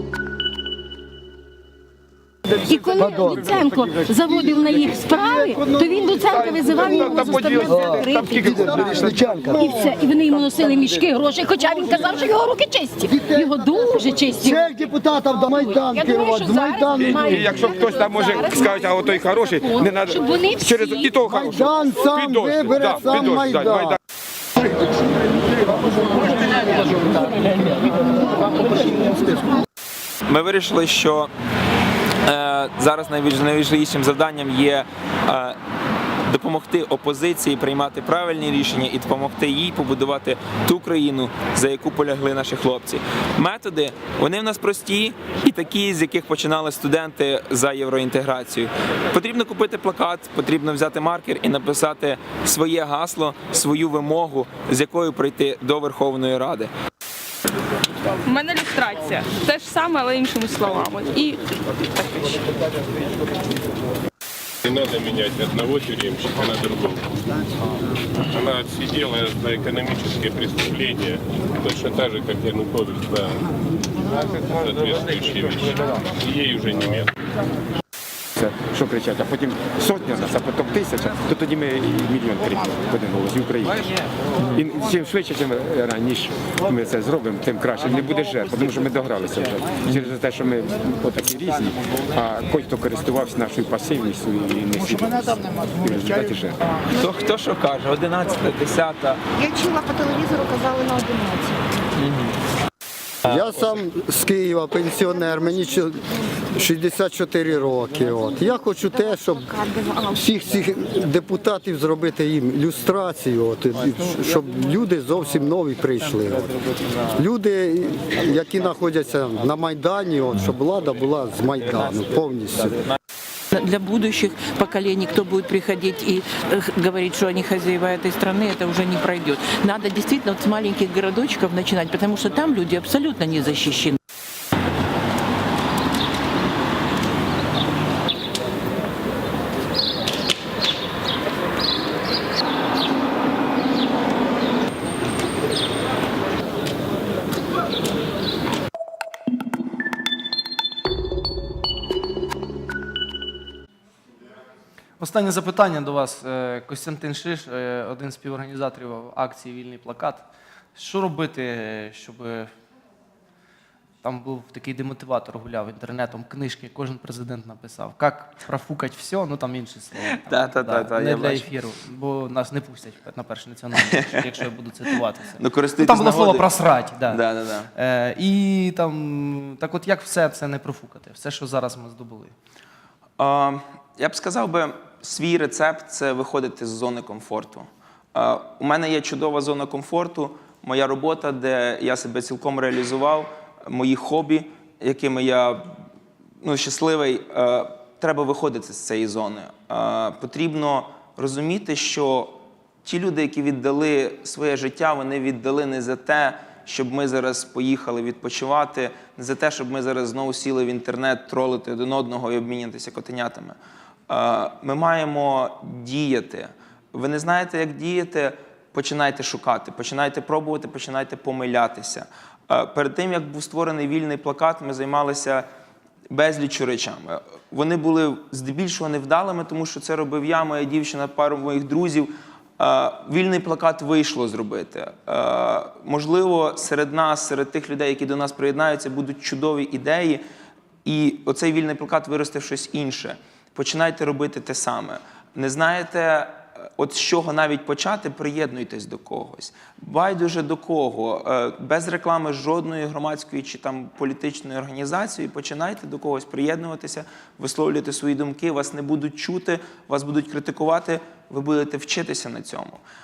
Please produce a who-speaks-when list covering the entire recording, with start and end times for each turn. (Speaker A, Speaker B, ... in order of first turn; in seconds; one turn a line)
Speaker A: 2.5-18.6
Speaker B: 3.0-10.0
Speaker C: 5.6-9.4
Speaker B: 13.0-13.7
Speaker B: 14.3-17.6
Speaker C: 16.9-24.0
Speaker A: 19.6-21.1
Speaker B: 21.2-24.0
Speaker B: 28.6-29.2
Speaker D: 30.3-31.3
Speaker D: 32.2-35.6
Speaker D: 36.3-56.7
Speaker E: 58.2-61.4
Speaker E: 62.0-62.3
Speaker F: 64.6-67.1
Speaker F: 68.3-73.5
Speaker F: 74.2-77.1
Speaker C: 78.3-83.8
Speaker C: 84.4-96.6
Speaker D: 96.9-99.2
Speaker G: 99.4-101.7
Speaker D: 102.0-102.3
Speaker B: 103.2-109.5
Speaker G: 105.0-106.1
Speaker G: 108.3-110.3
Speaker B: 110.1-116.5
Speaker B: 117.1-122.8
Speaker H: 123.5-134.0
Speaker I: 155.0-160.2
Speaker I: 160.7-162.5
Speaker I: 164.0-177.2
Speaker D: 170.2-171.4
Speaker D: 173.9-174.2
Speaker D: 175.4-176.5
Speaker D: 177.1-177.7
Speaker I: 177.7-182.3
Speaker D: 183.2-195.8
Speaker D: 196.4-213.6
Speaker D: 214.1-225.4
Speaker D: 226.1-240.2
Speaker D: 240.8-262.8